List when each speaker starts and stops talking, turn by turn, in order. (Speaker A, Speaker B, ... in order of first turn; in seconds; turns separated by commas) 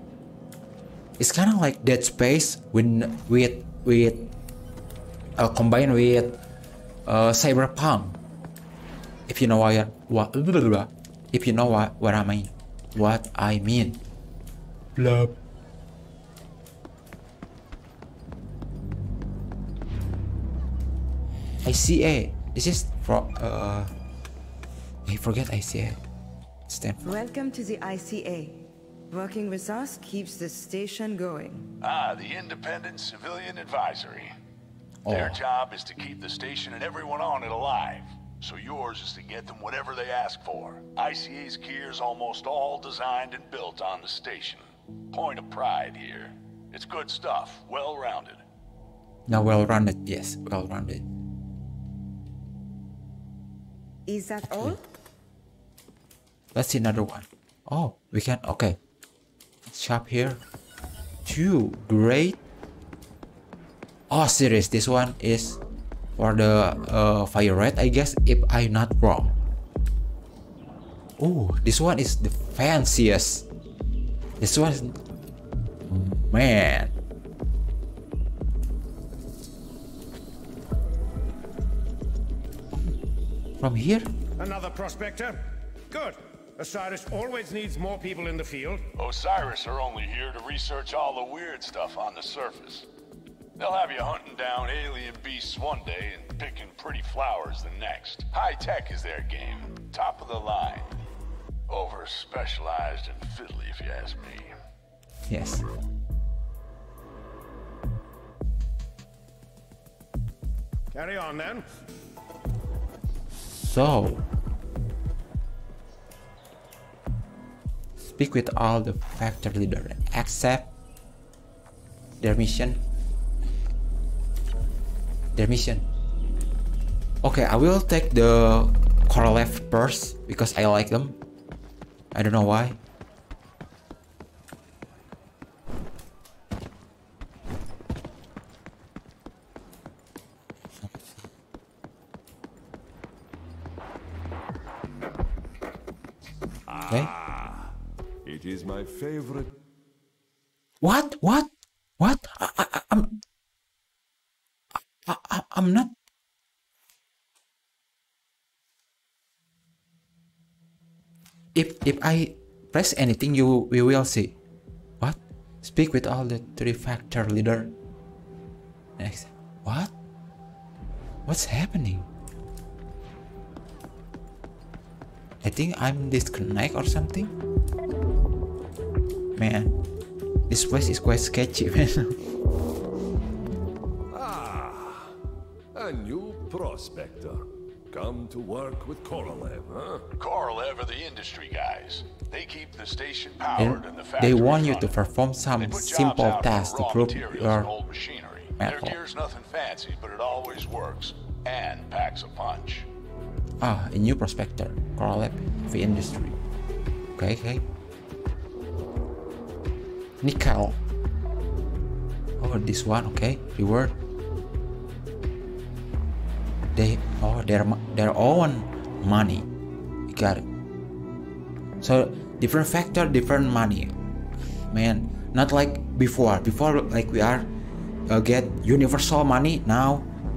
Speaker A: 1.2-4.3, Speaker A: 5.4-6.4, Speaker A: 7.0-8.2, Speaker A: 9.3-14.0, Speaker A: 14.9-15.4, Speaker A: 21.6-23.9, Speaker A: 25.1-26.0, Speaker A: 26.7-27.0, Speaker B: 27.0-31.7, Speaker C: 31.8-34.3, Speaker A: 35.0-35.4, Speaker C: 35.1-48.4, Speaker A: 49.3-51.0, Speaker B: 54.1-54.8, Speaker A: 54.5-54.8, Speaker A: 56.5-58.8, Speaker A: 59.6-60.4, Speaker A: 61.2-62.4, Speaker A: 64.1-65.6, Speaker A: 66.2-69.4, Speaker A: 71.2-73.5, Speaker A: 74.4-75.0, Speaker A: 75.9-76.9, Speaker A: 83.6-84.1, Speaker D: 84.4-88.9, Speaker C: 89.0-92.9, Speaker C: 93.6-101.0, Speaker C: 101.7-104.5, Speaker A: 105.3-105.6, Speaker D: 110.9-111.7, Speaker A: 113.4-114.2, Speaker A: 118.0-120.7, Speaker A: 122.2-122.8, Speaker A: 125.3-125.8, Speaker A: 127.2-131.2, Speaker A: 132.1-132.8, Speaker E: 146.7-147.7, Speaker E: 148.2-149.5, Speaker A: 150.8-153.2, Speaker A: 154.7-155.9, Speaker A: 161.5-164.3, Speaker A: 165.0-167.8, Speaker A: 169.0-169.9, Speaker A: 171.2-172.1, Speaker A: 175.4-177.3, Speaker A: 179.3-179.8, Speaker A: 180.5-182.2, Speaker E: 184.1-185.1, Speaker E: 185.7-190.1, Speaker C: 190.2-195.0, Speaker A: 193.6-197.7, Speaker C: 195.6-202.9, Speaker A: 198.6-198.9, Speaker A: 203.6-206.4, Speaker A: 207.2-207.6, Speaker A: 210.2-210.8, Speaker A: 212.4-213.9, Speaker A: 216.7-219.5, Speaker A: 220.1-220.4, Speaker A: 221.8-223.9, Speaker A: 224.7-227.5, Speaker A: 228.1-230.1